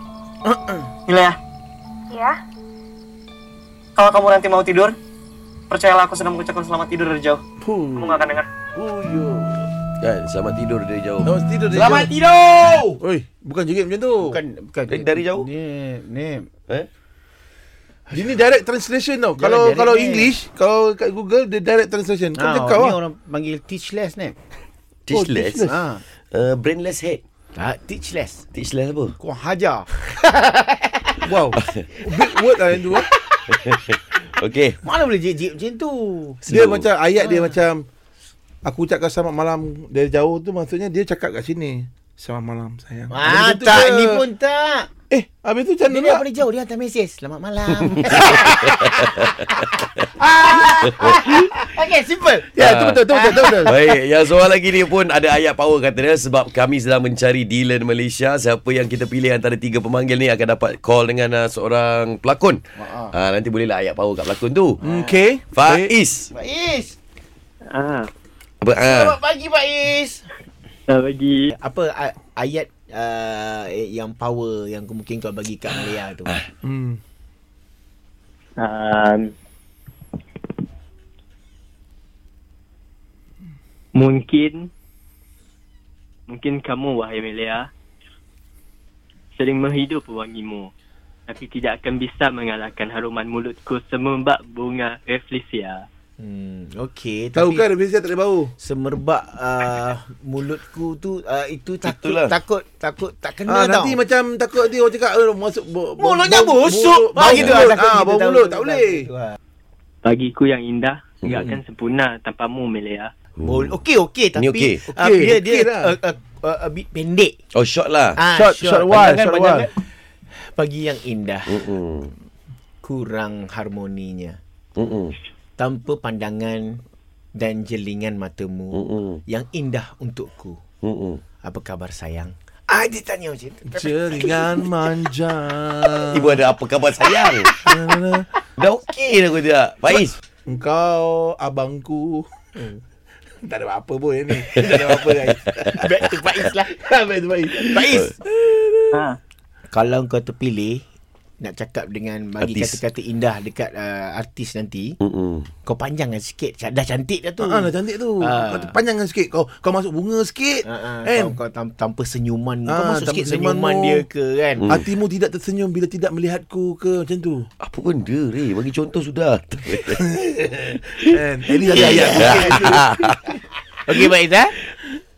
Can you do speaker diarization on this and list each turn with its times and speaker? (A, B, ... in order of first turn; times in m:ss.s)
0:00.4-0:00.9 A
0:01.1-0:01.4 B
0:04.0-0:05.0 B
0:05.7-0:07.4 B
0:07.6-0:09.7 A
0:07.9-0:08.5 B
0:10.0-0:11.3 C
0:11.2-0:12.1 A
0:11.7-0:13.0 D
0:13.0-0:14.4 A
0:14.2-0:16.5 D
0:14.9-0:15.5 C
0:18.1-0:18.3 D
0:18.1-0:23.0 A
0:19.4-0:20.3 D
0:22.3-0:24.4 D
0:25.1-0:25.7 C
0:25.1-0:25.8 A
0:25.7-0:26.0 D
0:26.3-0:27.2 C
0:27.6-0:28.4 D
0:28.5-0:29.1 C
0:29.2-0:31.2 D
0:31.2-0:33.1 A
0:32.7-0:33.6 D
0:33.5-0:34.8 C
0:34.8-0:36.4 D
0:36.4-0:36.9 C
0:36.5-0:37.9 A
0:37.2-0:37.6 D
0:38.6-0:44.2 A
0:43.1-0:44.9 D
0:45.1-0:46.2 A
0:45.8-0:53.8 D
0:48.1-0:49.3 C
0:50.2-0:51.4 A
0:52.5-0:53.8 A
0:52.6-0:53.0 C
0:53.6-1:02.6 C
1:02.8-1:03.2 D
1:03.1-1:04.8 C
1:04.8-1:05.2 D
1:04.8-1:05.9 A
1:05.5-1:06.3 C
1:06.3-1:07.0 D
1:07.7-1:08.1 E
1:08.6-1:09.2 C
1:08.8-1:10.3 D
1:10.9-1:11.5 E
1:11.5-1:16.4 D
1:16.6-1:17.0 A
1:18.6-1:19.3 E
1:24.0-1:24.7 E
1:26.3-1:27.6 E
1:29.4-1:30.7 E
1:31.3-1:35.8 E
1:36.2-1:37.7 D
1:37.4-1:38.5 A
1:38.6-1:44.0 D
1:41.8-1:42.4 C
1:43.5-1:49.1 A
1:46.0-1:49.4 D
1:50.0-1:53.1 E
1:51.2-1:51.6 C
1:53.4-1:53.7 C
1:53.4-1:57.3 D
1:54.4-1:54.8 C
1:54.8-1:55.9 A
1:57.5-1:58.2 C
1:58.2-2:01.7 D
1:58.4-1:59.7 A
2:01.5-2:02.1 C
2:02.8-2:04.4 D
2:04.8-2:05.2 C
2:05.6-2:06.8 D
2:07.4-2:10.6 D
2:08.7-2:09.2 C
2:10.8-2:11.2 C
2:11.4-2:14.9 D
2:13.7-2:16.4 A
2:16.1-2:17.5 C
2:17.1-2:17.5 D
2:17.5-2:18.3 A
2:18.6-2:20.2 C
2:19.9-2:22.8 A
2:23.4-2:25.9 A
2:24.4-2:25.7 C
2:25.8-2:26.8 D
2:26.7-2:29.0 A
2:27.6-2:28.2 D
2:29.7-2:30.8 D
2:31.4-2:35.0 D
2:32.4-2:32.8 C
2:35.0-2:35.5 C
2:35.6-2:38.7 D
2:37.4-2:41.4 A
2:40.6-2:44.7 D
2:42.7-2:44.0 A
2:44.7-2:47.5 A
2:47.6-2:50.0 C
2:49.9-2:53.4 A
2:51.6-2:52.8 D
2:51.7-2:53.4 C
2:53.9-2:54.6 D